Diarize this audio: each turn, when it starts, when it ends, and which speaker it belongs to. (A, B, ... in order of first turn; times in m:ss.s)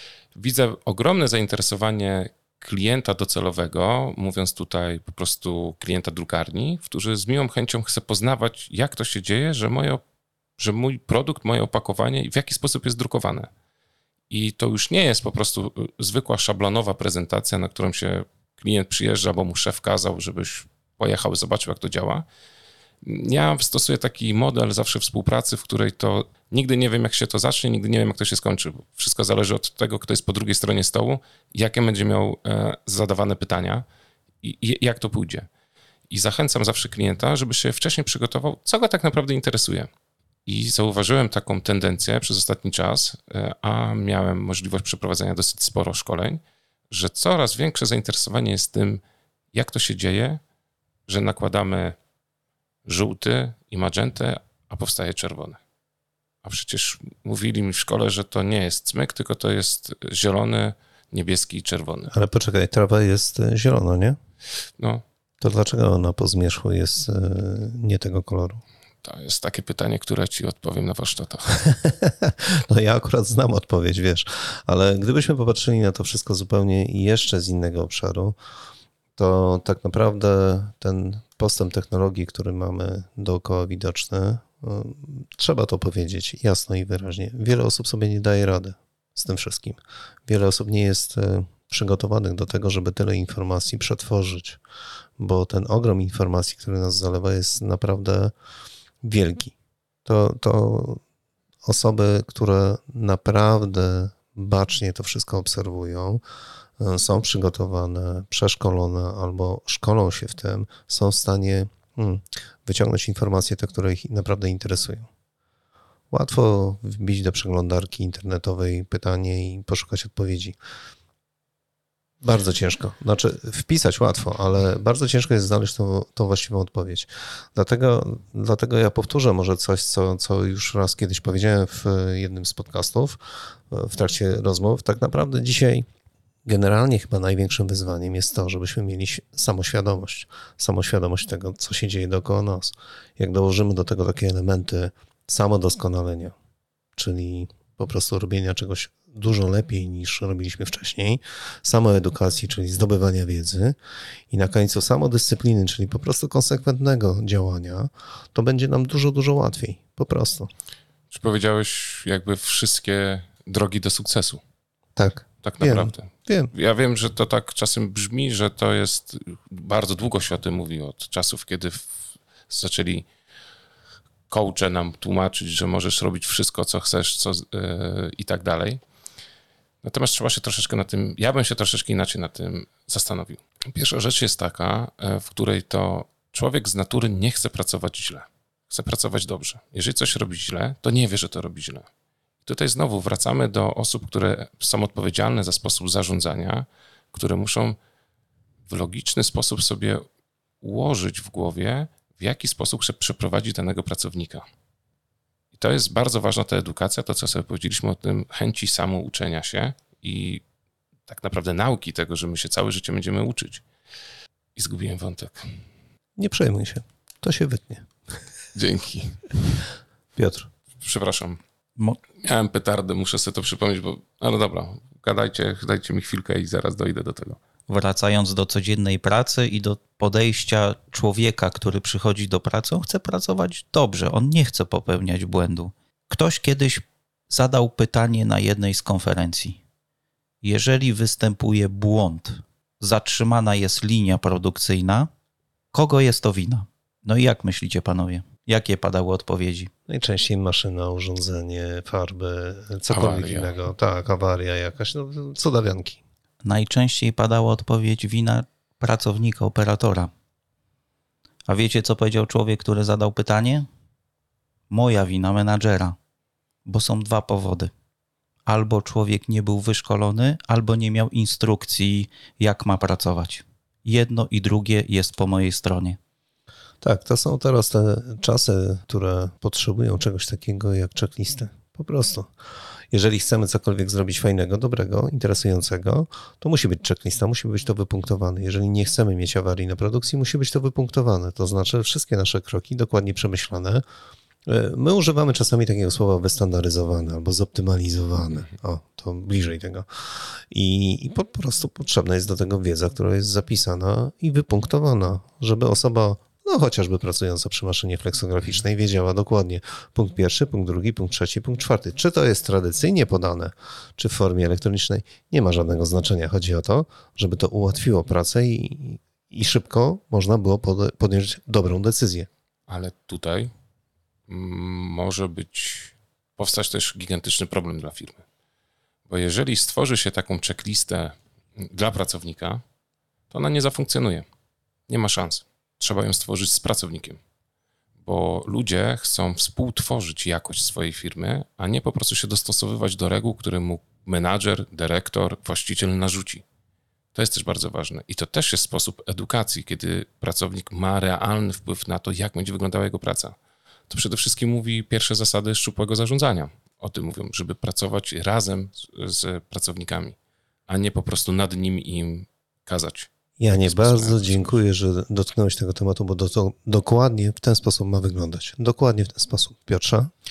0:00.4-0:10.0 A
0:10.6-0:13.5 A
0:14.3-0:22.2 A
0:23.0-0:33.8 A
0:34.4-0:35.5 A
0:36.1-0:39.9 A
0:40.5-0:49.0 A
0:49.5-0:50.4 A
0:51.1-0:52.0 A
0:52.8-0:55.6 A
0:56.4-1:02.1 A
1:02.1-1:04.2 B
1:04.8-1:05.0 A
1:05.4-1:08.6 B
1:09.0-1:11.6 A
1:11.6-1:18.4 B
1:19.2-1:34.6 B
1:35.2-1:38.3 B
1:39.0-1:41.0 B
1:41.6-1:46.2 B
1:46.8-1:55.1 B
1:56.1-2:00.6 B
2:02.2-2:15.9 B
2:16.5-2:26.4 B
2:27.0-2:33.8 B
2:34.3-2:40.5 B
2:41.1-2:44.4 A
2:45.0-2:46.5 B
2:45.4-2:52.0 A
2:52.5-2:53.1 A
2:54.3-2:58.8 A
2:59.8-3:11.9 A
3:12.4-3:17.8 A
3:18.7-3:20.1 A
3:20.6-3:24.4 A
3:25.5-3:30.4 A
3:31.1-3:33.6 A
3:34.6-3:35.6 A
3:36.2-3:37.9 B
3:38.6-3:39.6 A
3:40.2-3:40.5 B
3:40.8-3:41.4 A
3:42.2-3:47.4 A
3:47.7-3:59.6 C
4:00.4-4:05.1 C
4:05.7-4:09.7 C
4:09.9-4:16.0 B
4:12.9-4:13.5 A
4:16.4-4:20.1 C
4:21.5-4:23.7 C
4:24.7-4:26.0 C
4:26.6-4:27.7 C
4:28.5-4:36.0 C
4:36.8-4:42.3 B
4:42.9-4:53.8 B
4:54.5-5:22.3 B
5:22.7-5:23.5 A
5:24.3-5:28.2 A
5:29.1-5:32.6 A
5:33.3-5:34.3 A
5:34.9-5:37.2 A
5:38.0-5:46.4 A
5:47.1-5:53.4 A
5:53.9-6:00.2 A
6:00.7-6:04.6 A
6:03.4-6:10.1 B